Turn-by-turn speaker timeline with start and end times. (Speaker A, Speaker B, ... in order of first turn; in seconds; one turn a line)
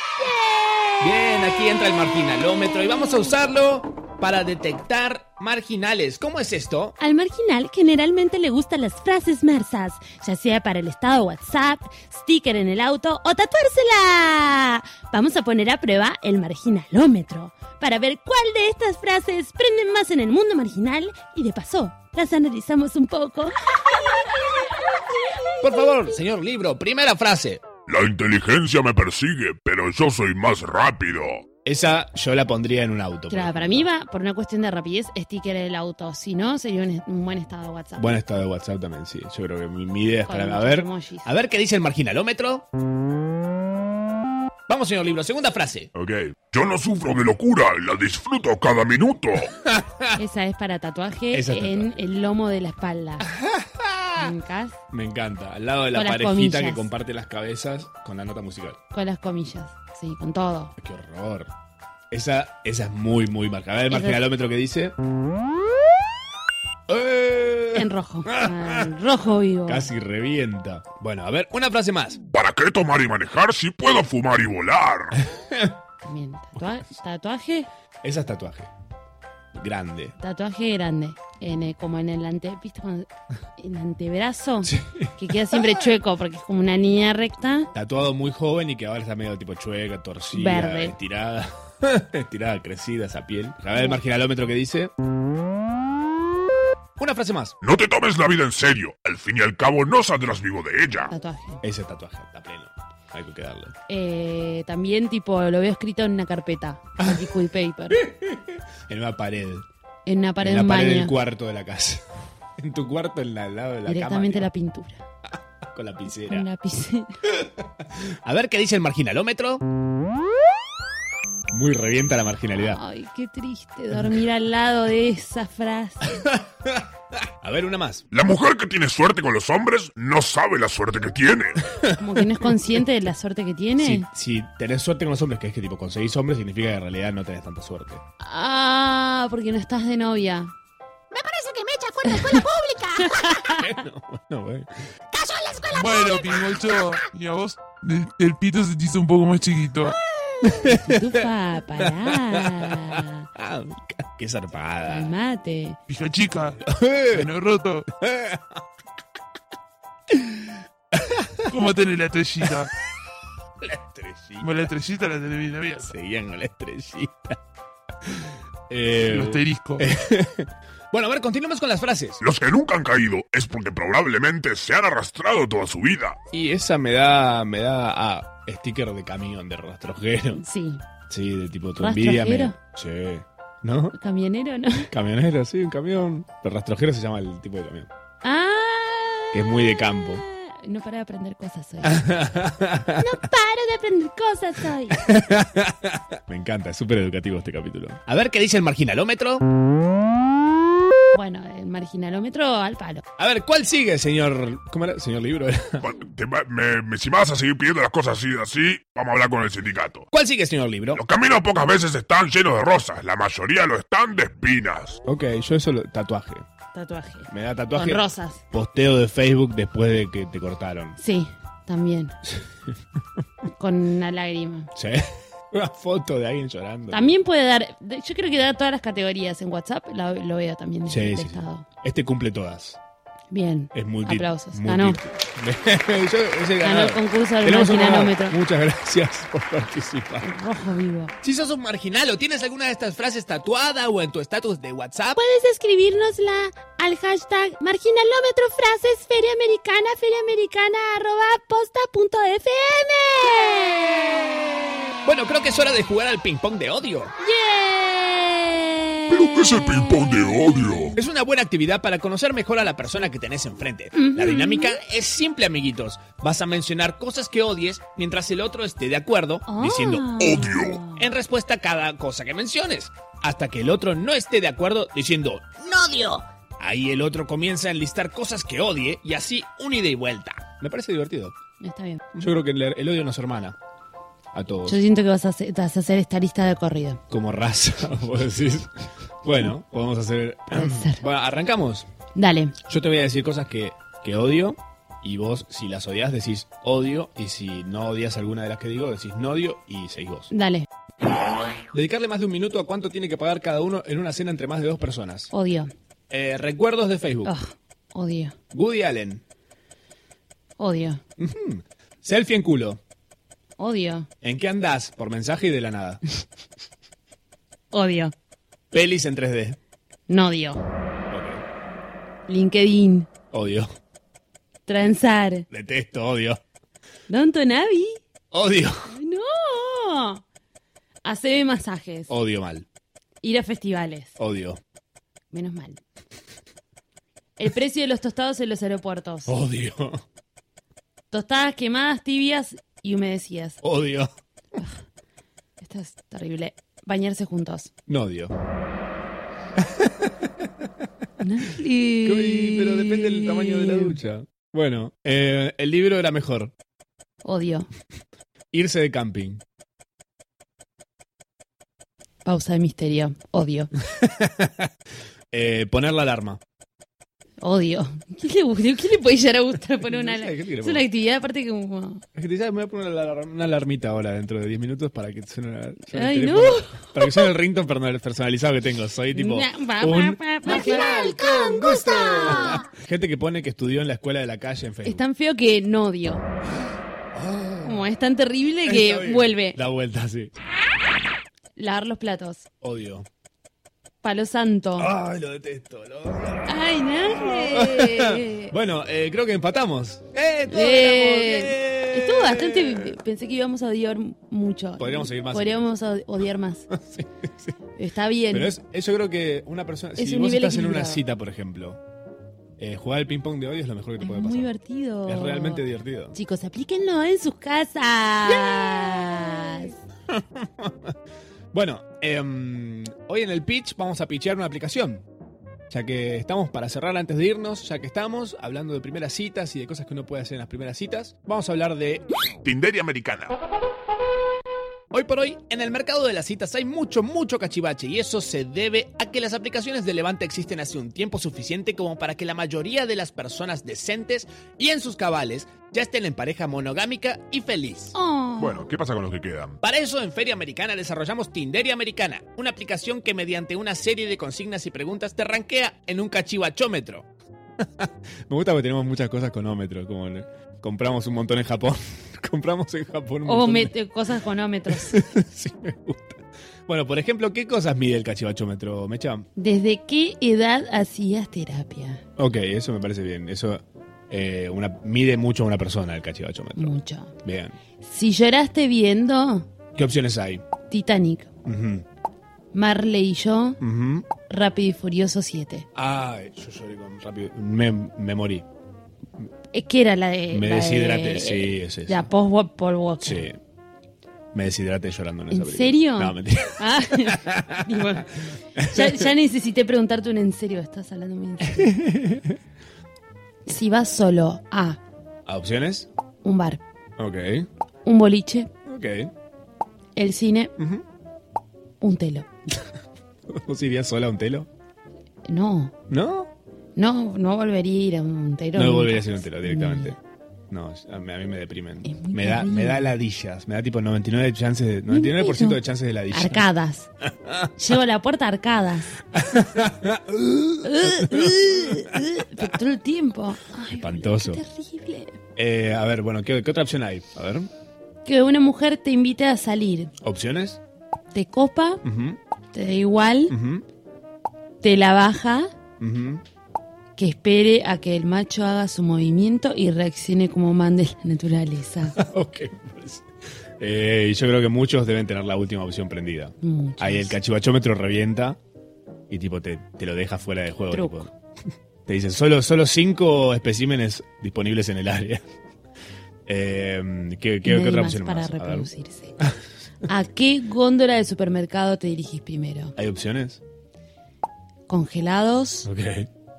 Speaker A: 0.2-1.4
Speaker B: 1.0-7.0
Speaker A: 7.0-26.2
Speaker B: 25.6-27.6
Speaker C: 27.9-31.4
Speaker B: 31.6-33.9
Speaker A: 33.3-38.2
Speaker B: 38.0-42.6
Speaker A: 40.2-41.3
Speaker B: 44.7-45.9
Speaker C: 45.9-49.5
Speaker B: 49.6-50.2
Speaker A: 50.1-53.3
Speaker B: 51.3-52.0
Speaker B: 53.3-54.3
Speaker A: 54.1-54.8
Speaker B: 54.9-58.8
Speaker A: 55.9-56.9
Speaker A: 58.9-60.7
Speaker B: 60.8-61.5
Speaker B: 62.1-64.9
Speaker A: 63.9-64.3
Speaker B: 66.9-68.9
Speaker A: 67.7-69.9
Speaker B: 69.7-72.2
Speaker C: 72.3-75.2
Speaker B: 75.4-75.8
Speaker A: 76.0-77.7
Speaker B: 78.0-78.7
Speaker B: 79.5-80.1
Speaker A: 80.2-87.7
Speaker B: 84.6-85.1
Speaker B: 87.7-94.9
Speaker A: 90.3-91.0
Speaker B: 97.0-97.5
Speaker C: 97.6-101.1
Speaker A: 101.1-101.6
Speaker B: 101.6-103.7
Speaker A: 103.9-108.1
Speaker B: 108.1-109.7
Speaker A: 110.0-111.2
Speaker B: 110.4-112.0
Speaker B: 112.6-114.5
Speaker A: 113.8-115.0
Speaker B: 115.7-116.5
Speaker A: 116.2-117.2
Speaker B: 117.4-119.6
Speaker B: 121.5-122.8
Speaker A: 122.6-126.2
Speaker B: 126.2-128.0
Speaker C: 128.1-131.6
Speaker A: 131.9-134.1
Speaker B: 133.8-138.0
Speaker A: 138.2-140.5
Speaker D: 141.1-143.5
Speaker A: 142.1-142.3
Speaker A: 143.0-143.6
Speaker B: 143.5-144.8
Speaker D: 145.1-147.0
Speaker E: 145.7-150.0
Speaker D: 149.9-150.4
Speaker B: 150.4-155.1
Speaker A: 150.6-153.3
Speaker A: 154.9-155.8
Speaker E: 155.9-157.9
Speaker B: 156.6-157.3
Speaker B: 158.0-158.6
Speaker B: 160.1-161.5
Speaker E: 161.4-162.7
Speaker B: 163.6-164.5
Speaker E: 164.4-165.9
Speaker B: 165.8-167.3
Speaker B: 168.0-172.2
Speaker E: 169.0-169.9
Speaker C: 172.2-176.2
Speaker B: 176.3-180.4
Speaker A: 180.3-180.8
Speaker B: 181.1-183.9
Speaker A: 181.8-182.6
Speaker A: 183.9-184.9
Speaker B: 184.9-187.9
Speaker A: 188.2-192.1
Speaker B: 189.3-190.2
Speaker B: 191.8-193.1
Speaker A: 193.0-195.1
Speaker B: 194.9-199.4
Speaker A: 201.1-203.0
Speaker B: 203.2-205.8
Speaker C: 205.8-210.1
Speaker B: 210.1-211.0
Speaker C: 210.9-215.0
Speaker B: 215.1-216.4
Speaker A: 216.7-218.4
Speaker B: 217.3-221.0
Speaker A: 221.0-222.1
Speaker A: 223.5-224.7
Speaker B: 224.7-227.1
Speaker A: 226.9-231.7
Speaker B: 230.9-232.8
Speaker A: 233.3-235.0
Speaker B: 233.7-240.3
Speaker A: 236.6-238.4
Speaker A: 240.2-241.1
Speaker B: 241.2-245.2
Speaker A: 245.1-254.4
Speaker B: 255.0-257.1
Speaker A: 257.2-260.9
Speaker C: 259.1-261.0
Speaker B: 260.9-270.2
Speaker A: 263.9-264.8
Speaker A: 269.5-271.1
Speaker C: 270.2-270.8
Speaker B: 270.9-281.3
Speaker A: 281.6-282.2
Speaker B: 282.1-283.6
Speaker B: 284.3-284.8
Speaker A: 284.7-287.0
Speaker B: 287.1-291.9
Speaker A: 290.5-291.0
Speaker A: 292.1-292.6
Speaker B: 292.6-300.3
Speaker A: 300.3-300.7
Speaker B: 301.7-305.3
Speaker A: 305.3-305.7
Speaker B: 306.1-307.3
Speaker A: 307.2-308.3
Speaker B: 308.5-309.2
Speaker A: 310.6-311.0
Speaker B: 311.2-312.8
Speaker A: 313.6-314.1
Speaker B: 314.2-316.0
Speaker A: 317.7-318.1
Speaker B: 318.7-319.6
Speaker A: 320.1-320.6
Speaker B: 321.1-321.4
Speaker A: 322.3-323.1
Speaker B: 323.3-323.7
Speaker A: 324.6-325.4
Speaker B: 325.5-326.4
Speaker A: 327.1-328.0
Speaker B: 328.3-328.9
Speaker A: 328.9-330.2
Speaker A: 331.0-332.1
Speaker B: 332.1-332.6
Speaker A: 333.2-334.2
Speaker B: 334.2-334.6
Speaker A: 335.3-335.8
Speaker A: 337.4-339.3
Speaker B: 339.3-340.0
Speaker A: 341.1-343.6
Speaker B: 343.6-344.1
Speaker A: 345.6-347.7
Speaker B: 347.9-348.3
Speaker B: 349.6-350.5
Speaker A: 351.2-354.0
Speaker B: 352.0-356.5
Speaker A: 357.2-357.7
Speaker B: 358.5-359.4
Speaker A: 362.2-363.7
Speaker B: 364.0-364.7
Speaker B: 365.3-366.4
Speaker A: 367.4-372.0
Speaker B: 369.8-370.9
Speaker B: 372.1-385.0
Speaker A: 375.9-377.3
Speaker A: 379.1-381.2
Speaker D: 381.0-381.4
Speaker A: 384.8-386.2
Speaker B: 387.1-387.9
Speaker A: 387.6-389.6
Speaker B: 388.6-390.3
Speaker A: 391.6-392.4
Speaker B: 392.6-393.1
Speaker A: 394.0-394.9
Speaker B: 394.8-396.5
Speaker A: 396.4-398.5
Speaker B: 397.1-402.9
Speaker A: 400.5-406.7
Speaker B: 404.8-405.7
Speaker B: 406.7-407.1
Speaker A: 407.8-408.5
Speaker B: 408.3-411.8
Speaker A: 410.0-411.0
Speaker B: 412.6-414.5
Speaker A: 414.0-419.8
Speaker B: 415.1-416.1
Speaker B: 418.3-419.4
Speaker B: 420.1-420.9
Speaker B: 421.5-425.0
Speaker B: 425.7-432.1
Speaker C: 432.4-433.3
Speaker B: 434.9-447.9
Speaker A: 447.9-448.7
Speaker C: 448.4-449.6
Speaker B: 449.6-463.7
Speaker A: 463.2-465.1
Speaker B: 464.7-469.3
Speaker A: 469.4-472.0
Speaker B: 472.2-477.6
Speaker A: 476.6-477.1
Speaker A: 477.8-479.5
Speaker B: 479.7-480.4
Speaker A: 480.6-481.3
Speaker B: 481.4-481.8
Speaker A: 482.5-483.6
Speaker B: 483.6-484.1
Speaker A: 484.3-485.7
Speaker B: 485.7-488.4
Speaker A: 489.5-493.3
Speaker B: 490.3-492.1
Speaker B: 493.0-493.4
Speaker B: 494.3-497.6
Speaker A: 495.3-501.8
Speaker B: 498.6-499.1
Speaker B: 501.5-502.4
Speaker A: 503.4-504.8
Speaker B: 505.2-505.9
Speaker A: 506.2-506.6
Speaker B: 507.0-507.5
Speaker A: 507.8-508.5
Speaker B: 508.6-509.1
Speaker A: 509.9-510.5
Speaker B: 510.6-510.8
Speaker A: 511.8-512.3
Speaker B: 513.3-514.5
Speaker A: 515.2-515.7
Speaker B: 515.9-516.3
Speaker A: 516.8-520.0
Speaker B: 518.5-520.0
Speaker B: 520.5-526.5
Speaker A: 521.8-522.9
Speaker A: 524.9-526.9
Speaker B: 527.0-527.5
Speaker A: 527.5-528.9
Speaker B: 529.1-532.1
Speaker A: 530.6-535.2
Speaker B: 533.7-534.4
Speaker B: 535.4-537.5
Speaker A: 538.0-539.9
Speaker B: 540.0-540.6
Speaker A: 541.1-541.8
Speaker B: 541.8-542.2
Speaker A: 542.5-543.3
Speaker B: 543.3-543.6
Speaker A: 544.6-545.5
Speaker B: 545.8-546.2
Speaker A: 547.0-552.0
Speaker B: 551.9-553.0
Speaker B: 553.6-558.4
Speaker A: 556.4-557.1
Speaker B: 559.1-561.1
Speaker A: 560.7-561.1
Speaker B: 561.9-565.2
Speaker B: 566.3-568.7
Speaker A: 567.4-569.2
Speaker A: 569.9-572.7
Speaker B: 572.8-573.4
Speaker A: 574.7-575.7
Speaker B: 575.6-576.1